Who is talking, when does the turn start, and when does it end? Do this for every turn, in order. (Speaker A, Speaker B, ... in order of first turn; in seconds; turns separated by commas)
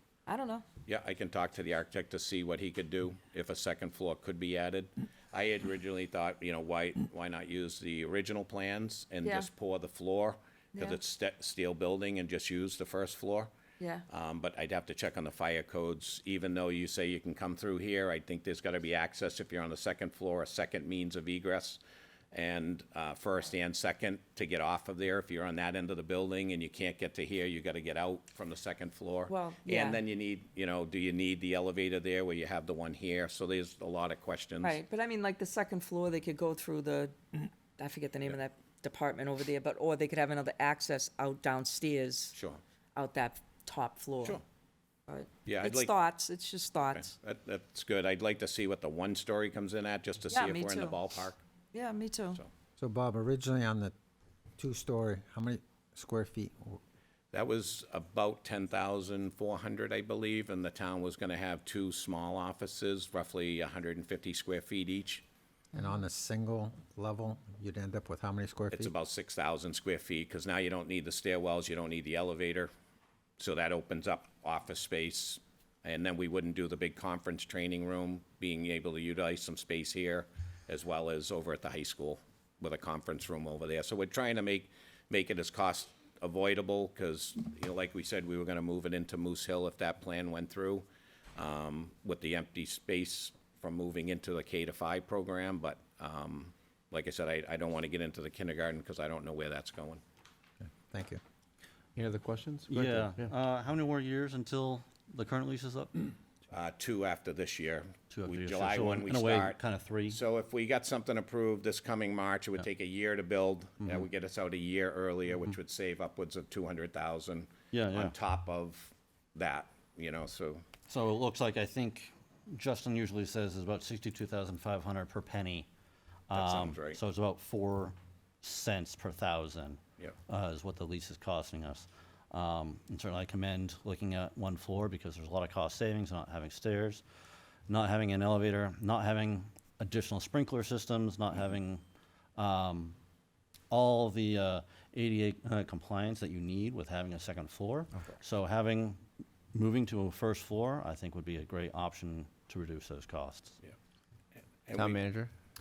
Speaker A: 0.3-0.6, Speaker B: 0.8-13.5, Speaker A: 9.2-9.5, Speaker A: 13.8-14.1, Speaker B: 14.1-21.8, Speaker B: 22.3-34.8, Speaker A: 29.3-30.0, Speaker A: 34.6-42.4, Speaker B: 42.3-42.6, Speaker A: 42.9-44.4, Speaker A: 45.1-47.1, Speaker B: 45.5-45.9, Speaker B: 46.9-51.4, Speaker A: 50.3-51.0, Speaker A: 51.7-52.4, Speaker C: 52.8-53.9, Speaker C: 54.6-56.8, Speaker B: 57.3-65.2, Speaker C: 65.7-68.9, Speaker B: 68.7-72.7, Speaker B: 73.4-100.0, Speaker C: 100.6-101.2, Speaker D: 102.0-103.3, Speaker E: 102.7-106.0, Speaker B: 106.5-120.6, Speaker E: 108.1-110.2, Speaker E: 117.7-118.1, Speaker E: 120.9-125.7, Speaker E: 126.3-137.0, Speaker B: 126.3-127.0, Speaker E: 137.7-141.8, Speaker E: 142.3-142.9, Speaker E: 143.7-149.0, Speaker E: 149.5-153.6, Speaker B: 154.7-155.0, Speaker D: 154.7-155.3